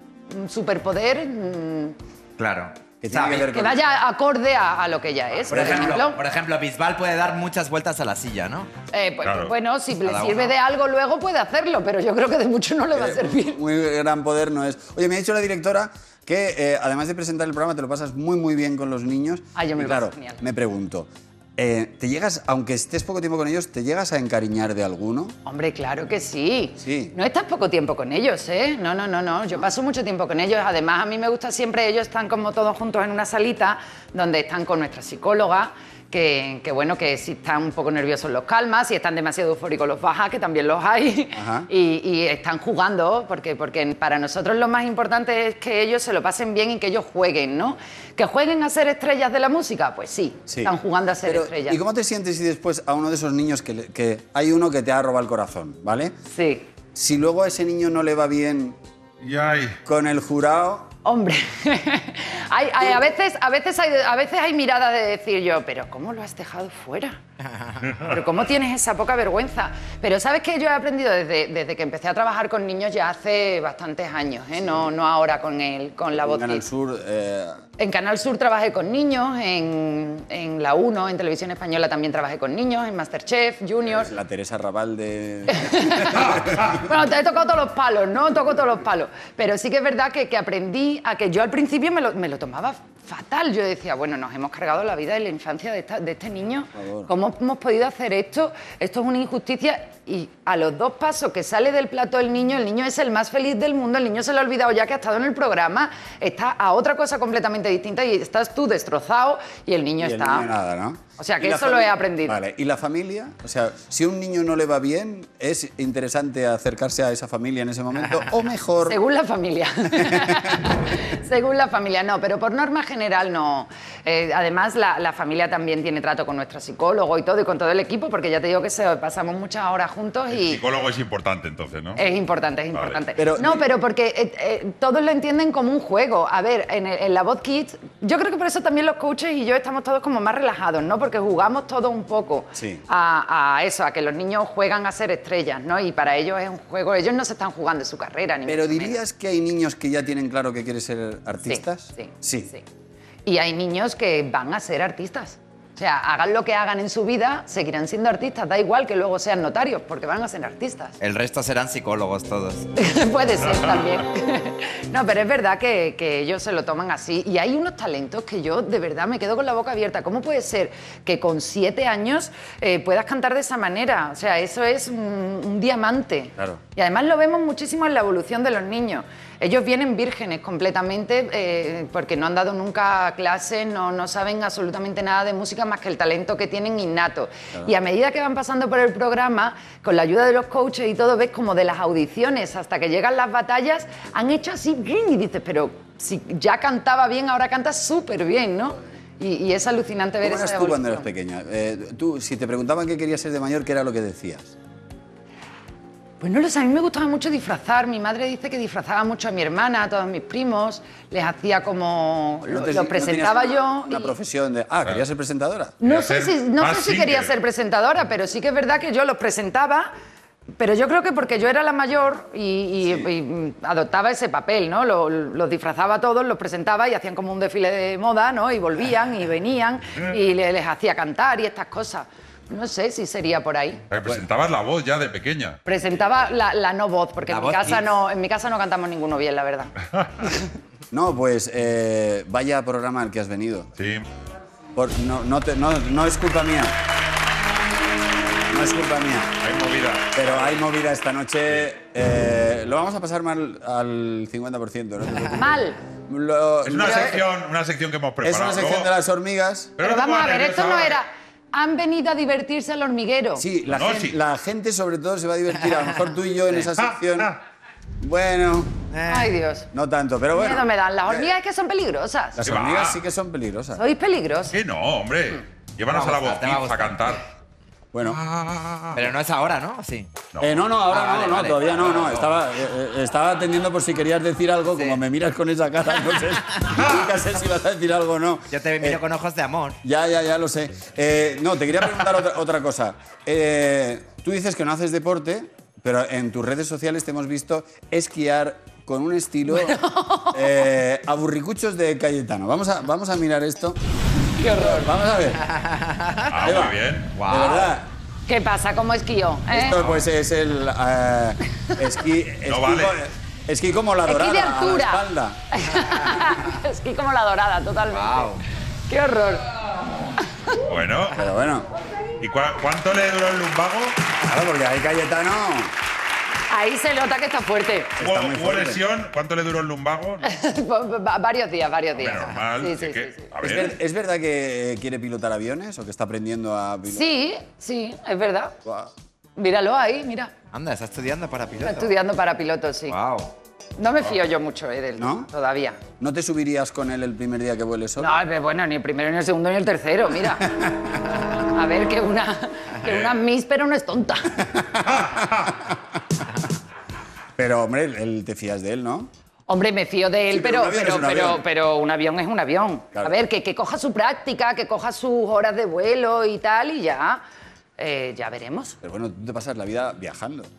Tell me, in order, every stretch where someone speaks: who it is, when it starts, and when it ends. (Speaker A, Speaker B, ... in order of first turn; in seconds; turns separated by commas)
Speaker A: 0.3-1.9, Speaker B: 2.4-3.5, Speaker C: 3.0-3.8, Speaker A: 3.3-6.2, Speaker C: 5.5-6.0, Speaker B: 5.5-8.7, Speaker A: 8.9-13.6, Speaker D: 9.2-9.5, Speaker B: 10.0-10.5, Speaker C: 12.9-25.3, Speaker A: 19.5-20.4, Speaker A: 25.4-51.8, Speaker C: 26.8-27.1, Speaker C: 41.3-41.7, Speaker C: 50.5-56.1, Speaker A: 56.3-56.7, Speaker C: 56.9-58.8, Speaker D: 59.2-59.8, Speaker C: 59.8-60.9, Speaker A: 61.0-67.2, Speaker A: 67.9-76.6, Speaker C: 76.2-77.6, Speaker A: 77.8-84.1, Speaker C: 83.9-86.8, Speaker A: 85.5-110.5, Speaker C: 96.7-97.1, Speaker C: 110.0-119.0, Speaker A: 111.2-112.4, Speaker A: 118.8-130.6, Speaker C: 119.9-120.7, Speaker D: 130.3-132.0, Speaker A: 131.9-149.0, Speaker C: 133.2-133.7, Speaker C: 142.5-142.8, Speaker C: 148.4-152.5, Speaker A: 151.5-152.6, Speaker A: 153.2-160.9, Speaker B: 161.0-162.7, Speaker A: 162.8-201.1, Speaker C: 200.2-204.5, Speaker A: 206.2-214.1, Speaker C: 212.5-215.8, Speaker A: 215.8-219.9, Speaker D: 215.8-217.3, Speaker A: 220.6-233.8, Speaker C: 222.8-223.1, Speaker D: 233.9-235.6, Speaker A: 235.7-240.4, Speaker B: 237.2-237.8, Speaker C: 240.9-243.7, Speaker D: 243.8-244.1, Speaker C: 244.8-246.7, Speaker C: 248.5-249.3, Speaker D: 249.4-250.5, Speaker C: 250.1-255.5, Speaker A: 255.3-255.8, Speaker C: 256.1-257.2, Speaker D: 256.6-258.9, Speaker A: 256.8-257.2, Speaker C: 258.2-259.8, Speaker D: 259.8-261.0, Speaker A: 259.8-263.4, Speaker C: 263.4-267.3, Speaker D: 263.7-264.2, Speaker D: 266.6-267.3, Speaker C: 268.0-268.7, Speaker B: 268.9-269.3, Speaker A: 269.1-269.7, Speaker C: 269.7-271.3, Speaker A: 270.3-272.4, Speaker C: 272.3-273.8, Speaker D: 272.4-273.0, Speaker A: 273.7-274.6, Speaker D: 274.5-277.2, Speaker B: 275.9-277.1, Speaker C: 277.9-278.2, Speaker D: 278.0-279.1, Speaker B: 278.9-280.1, Speaker D: 280.3-280.6, Speaker C: 280.4-289.0, Speaker B: 280.9-282.3, Speaker B: 284.7-285.0, Speaker B: 288.5-289.8, Speaker C: 289.8-299.8, Speaker A: 299.4-300.7, Speaker C: 300.3-303.8, Speaker A: 304.4-304.9, Speaker C: 304.4-305.4, Speaker B: 305.6-306.2, Speaker D: 306.2-307.1, Speaker C: 306.4-307.9, Speaker B: 307.1-307.7, Speaker A: 308.3-309.8, Speaker C: 309.5-315.4, Speaker D: 312.5-312.9, Speaker A: 314.1-319.5, Speaker B: 317.9-318.4, Speaker A: 320.2-320.6, Speaker D: 320.7-321.1, Speaker C: 321.1-321.7, Speaker D: 322.2-324.0, Speaker C: 324.1-325.7, Speaker A: 326.5-328.0, Speaker C: 328.0-328.8, Speaker D: 328.0-330.2, Speaker A: 330.2-333.3, Speaker D: 331.9-333.8, Speaker B: 332.1-332.4, Speaker C: 333.4-337.1, Speaker A: 336.9-338.6, Speaker C: 338.6-338.9, Speaker A: 339.4-340.3, Speaker B: 340.5-341.9, Speaker A: 341.6-343.0, Speaker B: 342.9-343.3, Speaker A: 343.8-345.8, Speaker C: 345.0-345.3, Speaker C: 346.0-348.1, Speaker A: 348.0-350.6, Speaker A: 351.4-354.6, Speaker C: 354.6-355.7, Speaker C: 357.4-359.1, Speaker A: 359.5-367.2, Speaker C: 360.3-361.4, Speaker C: 362.9-363.2, Speaker A: 367.8-368.8, Speaker C: 368.8-370.5